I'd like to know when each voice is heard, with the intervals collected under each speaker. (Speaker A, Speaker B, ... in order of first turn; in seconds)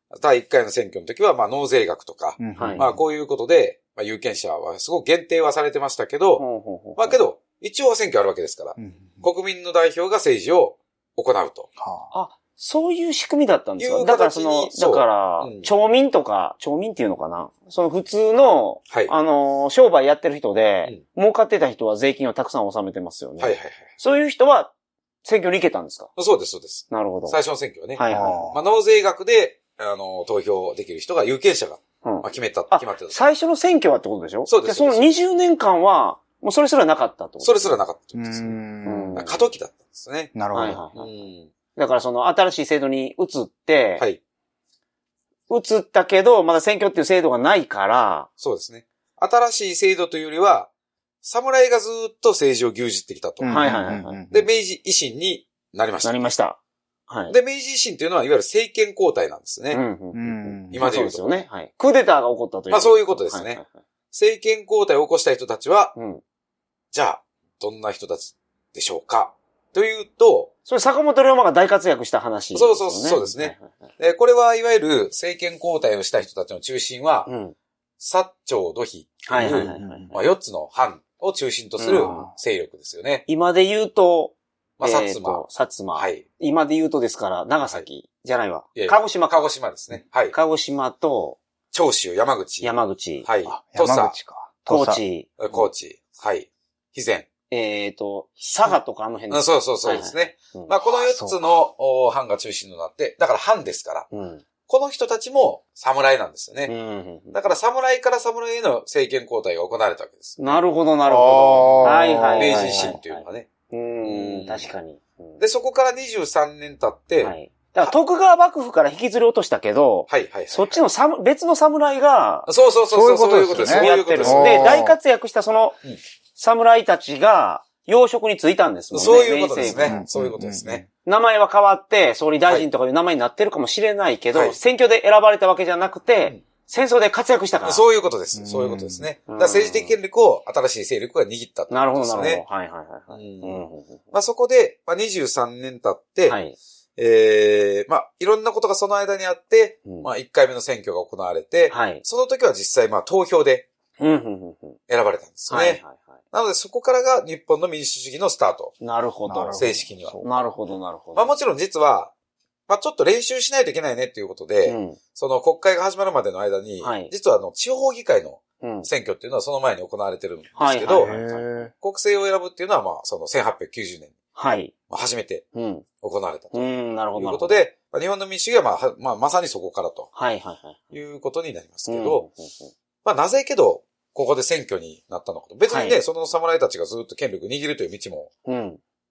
Speaker A: 0.1-6.4, 7.0-11.7, 13.8-15.7, 23.4-23.9, 26.2-33.2, 34.5-35.1, 37.4-38.6, 39.1-40.3, 41.0-41.5, 48.4-50.7, 51.2-56.1, 57.3-59.8, 60.7-61.4, 62.7-63.6, 64.1-65.9, 66.9-70.5, 72.5-77.3, 78.0-83.2, 84.8-85.4, 85.9-86.2, 88.8-90.3, 91.7-92.7, 93.2-94.1, 95.4-97.3, 99.3-104.1, 104.7-106.7, 107.3-110.6, 111.8-113.5, 114.0-114.7, 115.4-117.9, 120.1-120.8, 122.5-124.8, 128.9-130.8, 137.6-142.4, 143.1-146.4, 147.0-153.7, 154.9-158.8, 159.5-160.2, 161.1-162.1, 162.7-171.1, 171.8-174.1, 174.9-175.4, 176.0-180.1, 180.9-182.3, 183.0-188.3
Speaker B: 2.4-3.0, 8.8-9.2, 11.8-12.1, 28.1-28.6, 38.1-39.2, 40.3-40.8, 53.4-54.5, 60.1-60.8, 79.8-80.1, 82.0-82.3, 93.5-95.0, 100.8-101.4, 111.1-113.0, 122.9-125.0, 129.7-130.9, 138.3-139.1, 159.3-160.3, 170.9-171.7
Speaker C: 2.5-2.9, 6.4-7.2, 12.1-24.7, 25.2-26.1, 26.9-27.4, 27.9-28.5, 32.0-37.8, 38.9-39.5, 40.5-41.1, 41.7-44.0, 45.5-48.3, 53.5-54.2, 56.0-57.4, 59.7-63.7, 65.9-66.2, 70.7-73.9, 77.2-77.5, 79.3-80.2, 81.8-82.3, 83.3-89.5, 90.3-91.4, 92.6-93.2, 94.7-95.7, 97.5-100.7, 104.1-104.4, 106.7-107.4, 110.4-115.4, 117.2-122.5, 123.5-125.8, 126.3-130.0, 131.0-137.8, 139.3-139.9, 141.7-144.0, 146.2-146.6, 151.7-152.0, 154.0-154.8, 155.5-156.1, 158.8-159.6, 160.2-161.3, 164.6-165.0, 166.8-167.1, 168.6-168.9, 170.6-171.4, 174.3-174.7, 175.5-175.8, 176.5-177.6, 180.2-180.8, 181.9-182.7, 185.7-186.0, 188.4-188.8